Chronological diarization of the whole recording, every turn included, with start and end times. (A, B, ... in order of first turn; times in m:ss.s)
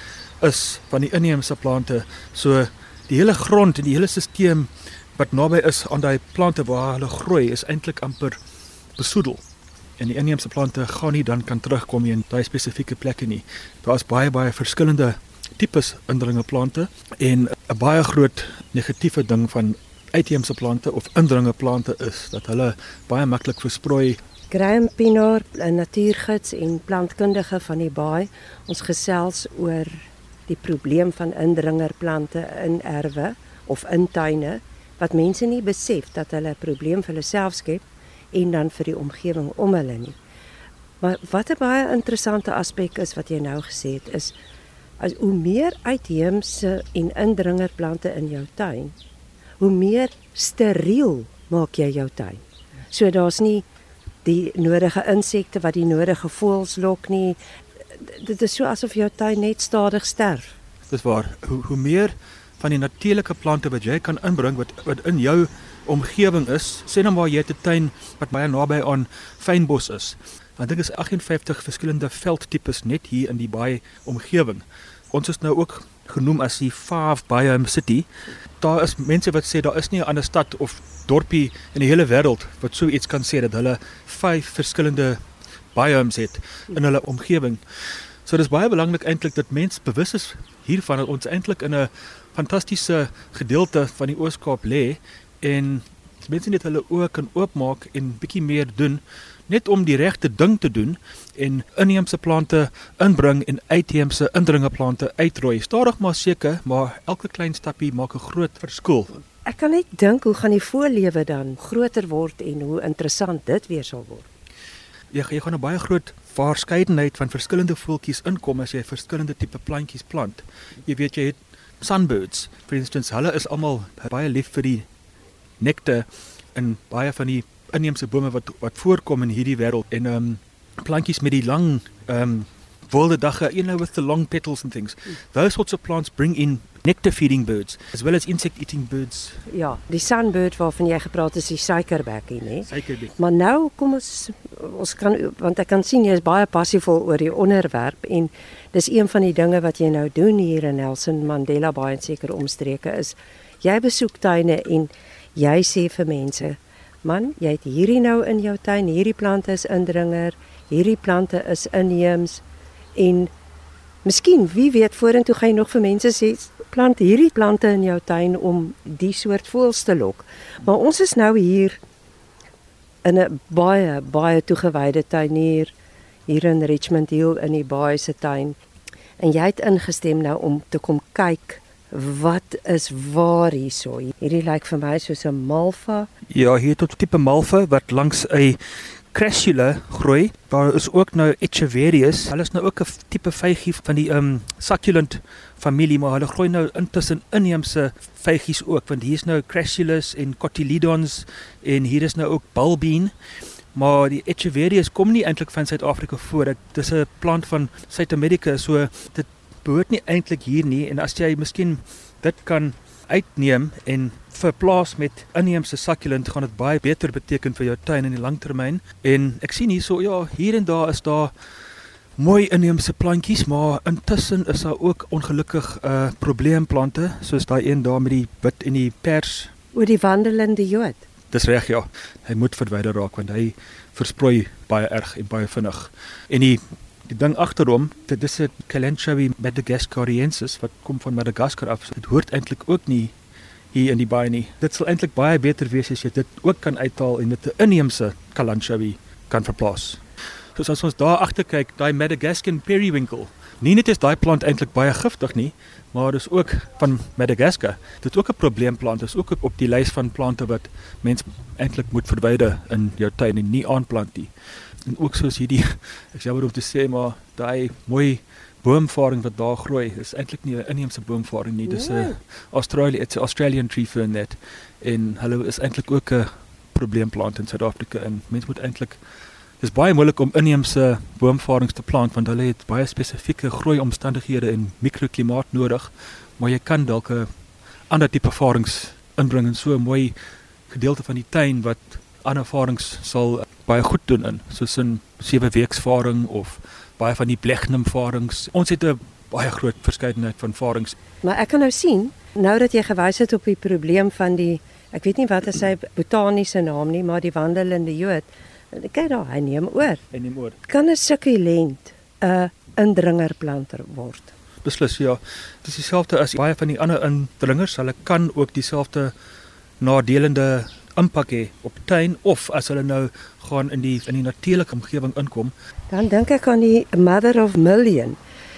0:00.4-0:08.4 A
0:09.0-0:09.4 A
0:10.0-0:24.2 A
0:24.5-0:40.2 B
0:41.0-0:44.3 B
0:45.0-0:48.9 B
0:49.6-0:53.7 B
0:54.2-0:57.4 B
0:57.9-1:00.6 B
1:00.9-1:18.1 A
1:18.6-1:25.2 A
1:25.7-1:27.6 A
1:28.2-1:49.2 A
1:49.4-1:54.3 B
1:55.1-2:04.9 A
2:05.6-2:19.4 A
2:19.5-2:42.4 B
2:22.6-2:23.2 A
2:43.0-2:43.3 B
2:44.0-2:51.8 B
2:53.0-2:55.7 B
2:56.3-2:58.6 B
2:59.2-3:06.1 B
3:06.3-3:23.1 A
3:23.7-3:41.3 A
3:42.2-3:49.5 A
3:49.7-3:51.0 B
3:51.3-4:03.1 A
4:03.7-4:10.0 A
4:10.6-4:24.3 A
4:24.8-4:39.0 A
4:31.7-4:32.2 B
4:39.6-4:47.3 A
4:47.9-4:50.2 A
4:50.7-5:00.9 A
5:01.2-5:10.0 B
5:10.1-5:10.6 A
5:10.6-5:14.3 B
5:14.6-5:19.1 A
5:19.8-5:25.5 A
5:25.9-5:28.2 B